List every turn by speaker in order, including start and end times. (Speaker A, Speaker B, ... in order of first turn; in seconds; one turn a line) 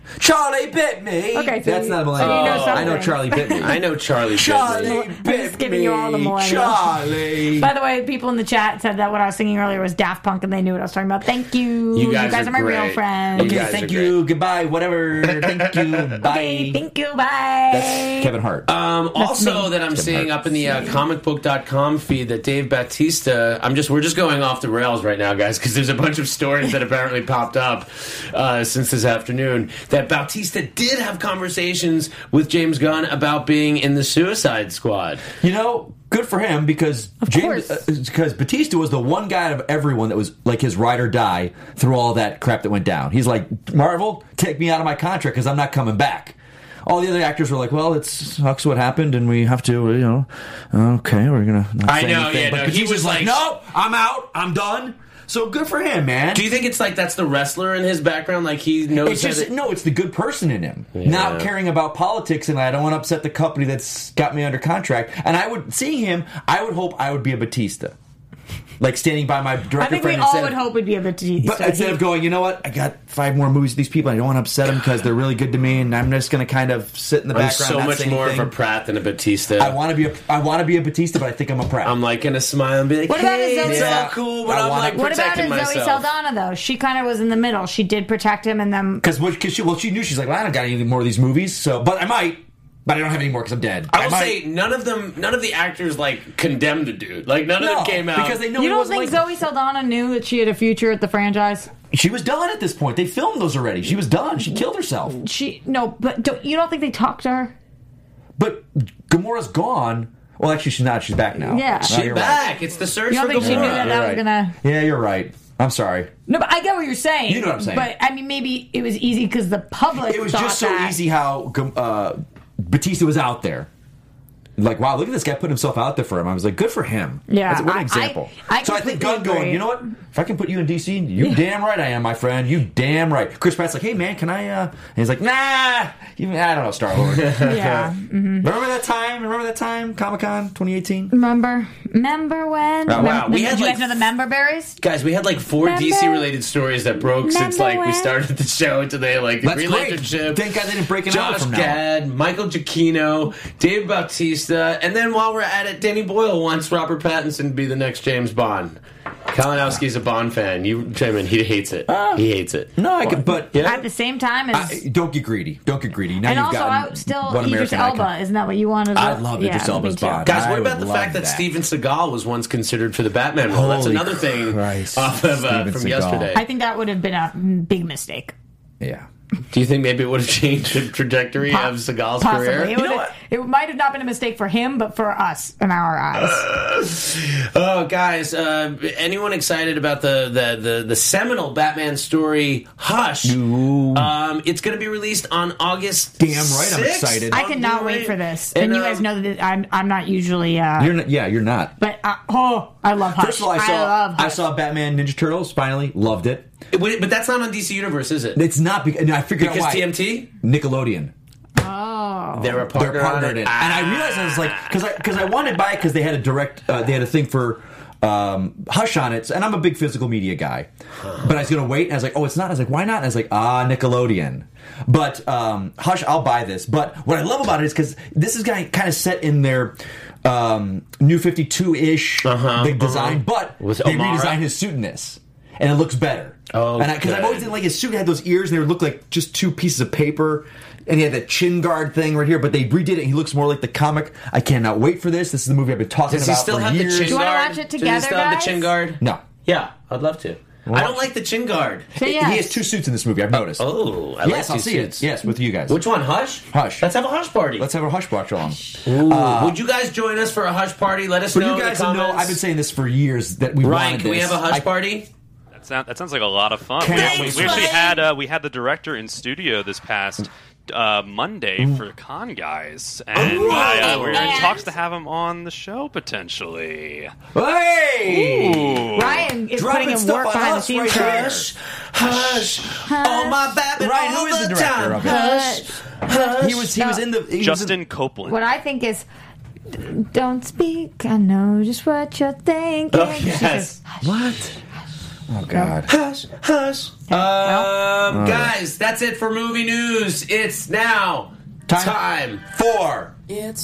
Speaker A: 0.2-7.7
Speaker B: 1.3-3.8
Speaker C: 2.2-5.0
Speaker B: 4.5-7.0
Speaker B: 7.5-13.6
Speaker C: 11.9-14.2
Speaker A: 13.4-16.8
Speaker C: 15.3-16.0
Speaker B: 16.2-18.3
Speaker A: 17.7-18.7
Speaker C: 18.7-35.2
Speaker B: 19.2-19.7
Speaker A: 19.9-20.5
Speaker A: 35.4-56.5
Speaker B: 37.2-37.8
Speaker C: 51.8-53.4
Speaker C: 56.3-59.5
Speaker A: 59.0-67.9
Speaker C: 60.9-61.5
Speaker A: 68.8-70.6
Speaker B: 69.8-72.0
Speaker A: 71.4-78.5
Speaker C: 77.3-79.8
Speaker A: 79.6-81.9
Speaker C: 81.8-86.0
Speaker B: 83.1-84.1
Speaker A: 83.6-85.0
Speaker B: 84.9-89.0
Speaker A: 89.0-94.4
Speaker C: 93.9-98.4
Speaker A: 97.6-99.2
Speaker B: 98.5-101.7
Speaker A: 101.9-105.2
Speaker B: 105.1-107.5
Speaker A: 108.4-112.4
Speaker B: 111.4-112.0
Speaker C: 111.9-114.0
Speaker B: 113.1-114.5
Speaker A: 113.4-116.1
Speaker B: 116.3-121.0
Speaker A: 117.3-117.9
Speaker A: 119.9-123.7
Speaker A: 124.6-137.9
Speaker B: 127.3-129.7
Speaker C: 137.2-137.7
Speaker B: 137.4-138.5
Speaker A: 138.4-141.1
Speaker B: 141.1-144.8
Speaker A: 142.9-143.2
Speaker C: 142.9-144.0
Speaker C: 144.8-163.8
Speaker B: 145.6-146.3
Speaker B: 147.2-148.1
Speaker A: 149.4-151.8
Speaker A: 161.9-162.2
Speaker A: 162.8-163.8
Speaker B: 163.6-164.8
Speaker A: 164.5-168.1
Speaker B: 166.2-170.3
Speaker A: 168.9-171.5
Speaker C: 170.2-176.4
Speaker A: 173.5-176.3
Speaker B: 176.3-178.3
Speaker A: 178.8-179.1
Speaker C: 179.5-182.7
Speaker B: 181.5-186.4
Speaker A: 182.7-183.1
Speaker C: 186.2-193.4
Speaker A: 193.2-194.1
Speaker C: 193.9-199.0
Speaker A: 196.2-197.4
Speaker B: 197.3-200.9
Speaker A: 200.8-201.7
Speaker B: 201.8-204.4
Speaker A: 203.2-206.5
Speaker C: 206.7-208.4
Speaker A: 208.3-211.1
Speaker C: 209.4-210.3
Speaker B: 211.6-212.7
Speaker C: 212.3-214.8
Speaker A: 212.7-247.2
Speaker C: 232.2-234.4
Speaker C: 236.5-237.5
Speaker C: 246.1-251.9
Speaker B: 247.1-248.7
Speaker A: 250.7-251.1
Speaker B: 251.9-252.6
Speaker A: 251.9-253.7
Speaker C: 253.3-255.1
Speaker A: 254.2-255.8
Speaker C: 255.7-257.7
Speaker A: 256.5-256.9
Speaker A: 257.6-259.6
Speaker C: 258.9-262.4
Speaker A: 261.3-264.6
Speaker C: 263.6-265.1
Speaker D: 265.5-277.1
Speaker A: 266.8-267.9
Speaker B: 266.9-268.0
Speaker C: 267.1-267.5
Speaker A: 273.1-274.1
Speaker C: 273.1-274.5
Speaker B: 273.4-274.7
Speaker A: 277.3-281.5
Speaker D: 278.0-279.2
Speaker B: 278.9-281.4
Speaker C: 280.8-286.6
Speaker A: 282.0-282.6
Speaker B: 282.8-283.6
Speaker A: 283.7-285.3
Speaker B: 285.0-287.0
Speaker A: 286.4-287.8
Speaker D: 287.4-288.4
Speaker B: 288.2-289.1
Speaker B: 289.7-294.2
Speaker C: 292.9-293.8
Speaker A: 294.0-294.6
Speaker A: 295.3-295.9
Speaker C: 295.9-302.4
Speaker B: 297.1-297.7
Speaker A: 298.1-298.5
Speaker A: 301.7-303.1